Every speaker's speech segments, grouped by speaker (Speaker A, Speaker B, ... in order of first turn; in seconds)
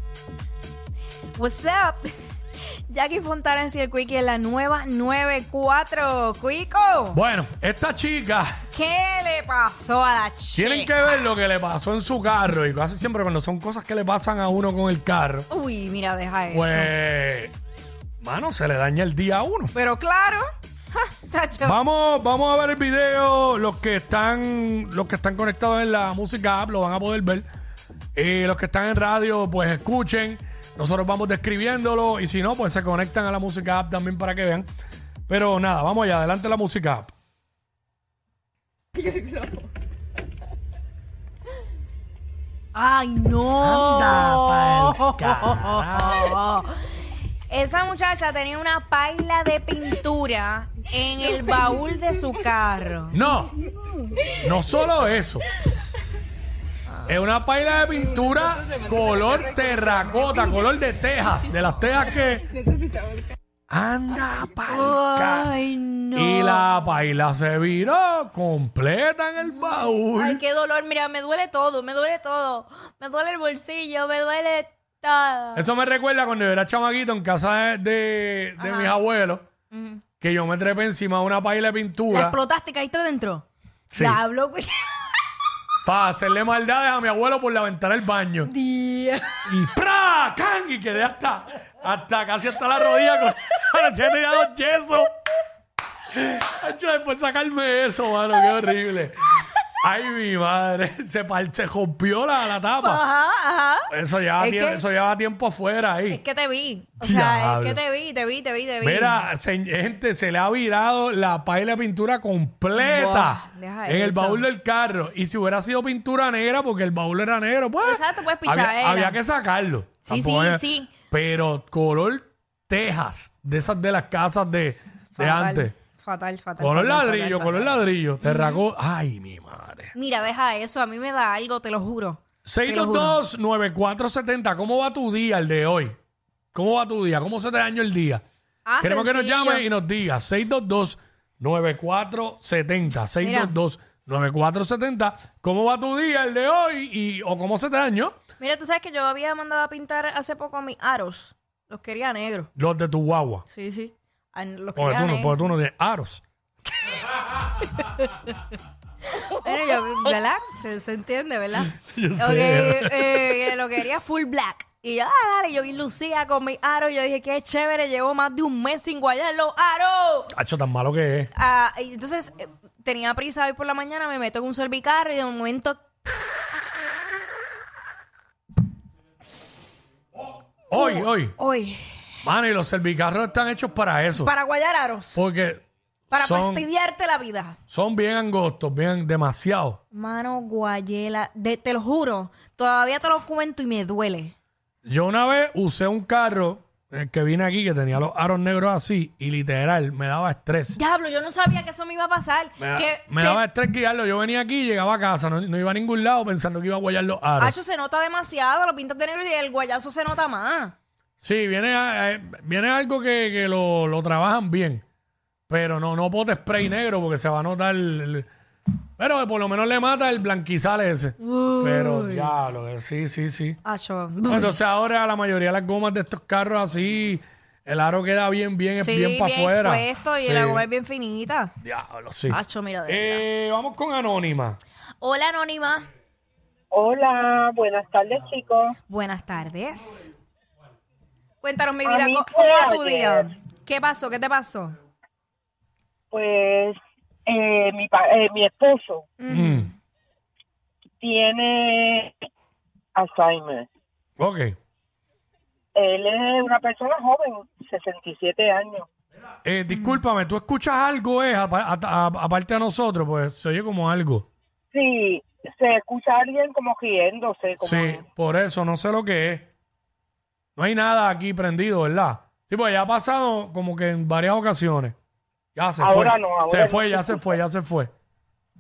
Speaker A: 1.4-2.1, 2.9-7.2, 8.7-10.9, 15.5-16.9, 19.7-21.8, 42.7-46.7, 47.5-53.2, 64.7-66.7, 69.5-75.7, 78.6-79.0, 79.7-80.0, 82.1-84.9, 88.4-89.5, 102.8-104.8, 106.1-109.2, 112.7-114.5, 117.8-119.2, 120.0-120.9, 125.2-128.6, 129.9-133.2, 138.7-139.6, 143.2-143.5, 148.4-152.5, 153.5-155.4, 157.8-158.1, 159.3-170.3, 171.3-175.8, 180.7-182.0, 184.2-185.2, 186.1-187.6, 189.9-194.3, 200.7-203.4, 207.4-210.7, 221.2-222.3, 223.6-224.5, 228.8-231.5, 232.3-233.2, 235.0-235.9, 238.9-240.1, 241.4-244.8, 249.2-249.7, 259.7-260.0
Speaker B: 7.1-8.5, 10.5-15.5, 16.5-17.5, 18.2-19.7, 21.6-27.4, 28.1-34.7, 35.3-37.1, 43.6-46.4, 53.1-53.5, 54.4-55.5, 56.9-62.5, 63.7-65.5, 66.1-70.4, 75.5-79.4, 80.2-82.4, 83.9-84.2, 85.8-88.5, 89.5-95.1, 96.1-103.0, 103.9-106.2, 107.0-107.8, 108.8-125.7, 126.6-129.9, 132.4-135.9, 136.5-138.2, 138.8-148.2, 152.6-153.4, 154.7-156.2, 161.7-163.4, 170.3-171.3, 180.7-181.3, 182.2-184.3, 185.1-186.7, 187.7-189.8, 194.8-200.8, 202.6-207.5, 211.2-214.8, 215.5-218.3, 219.0-223.6, 224.3-230.7, 231.6-234.6, 249.3-249.7, 254.2-254.5, 259.4-264.2, 267.6-269.5, 270.6-274.9, 275.6-277.9
Speaker C: 236.7-238.8, 241.8-243.3, 246.1-249.1, 251.0-252.1, 252.9-253.7, 255.7-258.9, 264.7-268.1, 275.8-277.2